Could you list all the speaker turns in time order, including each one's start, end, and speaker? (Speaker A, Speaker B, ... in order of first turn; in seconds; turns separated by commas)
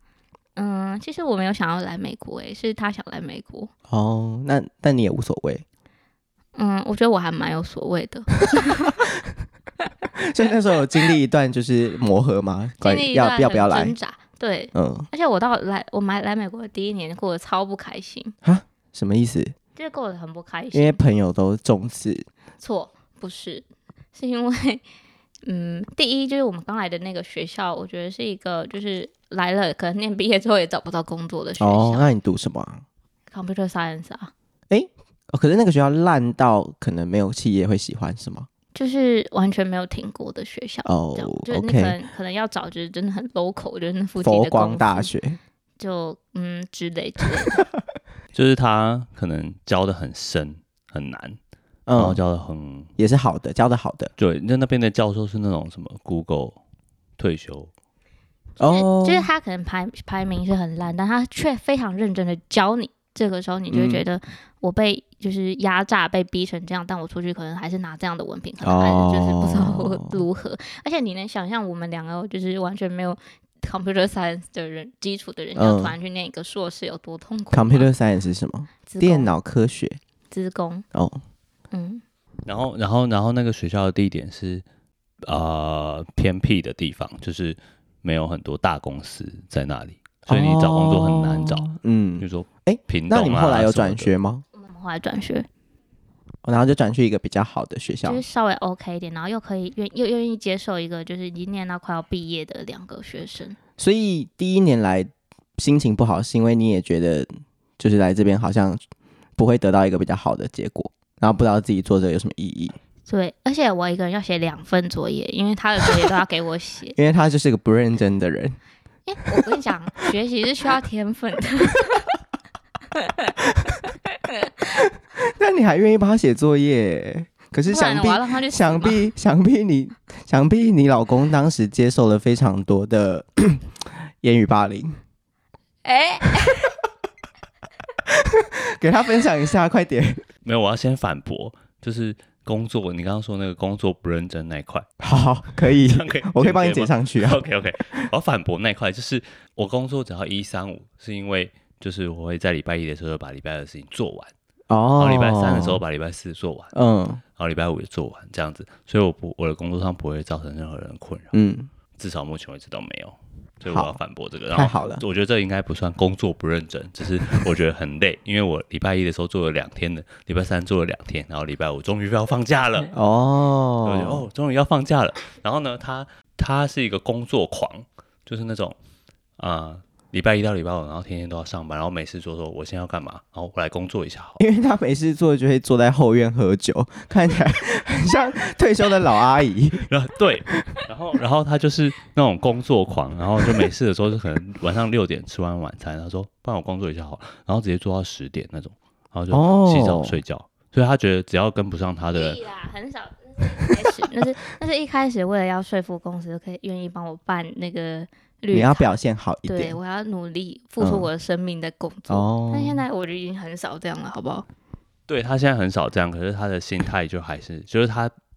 Speaker A: 0.6-3.7, Speaker B: 3.9-5.6, Speaker A: 6.5-9.0, Speaker B: 10.1-13.9, Speaker A: 12.8-18.3, Speaker B: 14.7-15.1, Speaker B: 18.4-19.5, Speaker A: 19.8-21.0, Speaker B: 20.7-22.2, Speaker A: 22.6-24.8, Speaker A: 25.4-32.1, Speaker B: 31.6-32.8, Speaker A: 33.3-34.3, Speaker B: 34.7-38.5, Speaker A: 38.7-45.1, Speaker B: 40.9-41.9, Speaker B: 44.2-45.4, Speaker A: 45.8-47.6, Speaker C: 48.3-51.4, Speaker B: 51.9-52.2, Speaker C: 52.0-52.9, Speaker B: 53.0-54.1, Speaker C: 54.2-56.6, Speaker C: 57.2-57.7, Speaker B: 58.6-59.3, Speaker A: 58.6-77.9, Speaker B: 63.7-64.0, Speaker B: 68.6-70.2, Speaker B: 75.5-75.9, Speaker B: 77.5-80.0, Speaker A: 78.9-79.3, Speaker A: 80.3-80.8, Speaker B: 80.9-81.2, Speaker A: 81.7-82.0, Speaker C: 82.5-84.6, Speaker C: 85.2-91.7, Speaker B: 90.3-94.4, Speaker C: 92.2-94.1, Speaker A: 94.5-95.5, Speaker B: 96.4-98.2, Speaker A: 98.0-103.6, Speaker B: 103.8-108.8, Speaker B: 109.4-112.8, Speaker A: 113.1-117.0, Speaker B: 117.0-118.6, Speaker A: 119.0-122.0, Speaker A: 122.9-123.3, Speaker B: 123.5-123.8, Speaker B: 124.8-133.7, Speaker A: 127.7-129.0, Speaker B: 134.2-135.0, Speaker A: 135.8-136.7, Speaker B: 138.1-140.2, Speaker C: 140.4-144.9, Speaker B: 145.0-148.0, Speaker C: 145.7-154.3, Speaker B: 154.7-155.8, Speaker C: 155.0-156.7, Speaker B: 156.7-157.2, Speaker C: 157.3-161.3, Speaker B: 161.3-161.7, Speaker C: 161.9-172.9, Speaker B: 163.7-164.0, Speaker B: 164.5-165.0, Speaker B: 172.9-174.2, Speaker C: 173.8-178.8, Speaker C: 179.4-184.4, Speaker B: 184.4-189.9, Speaker C: 189.9-202.4, Speaker B: 199.3-200.2, Speaker A: 202.1-208.9, Speaker B: 208.5-209.8, Speaker A: 209.5-214.5, Speaker B: 210.8-211.1, Speaker B: 212.1-212.8, Speaker C: 215.1-218.1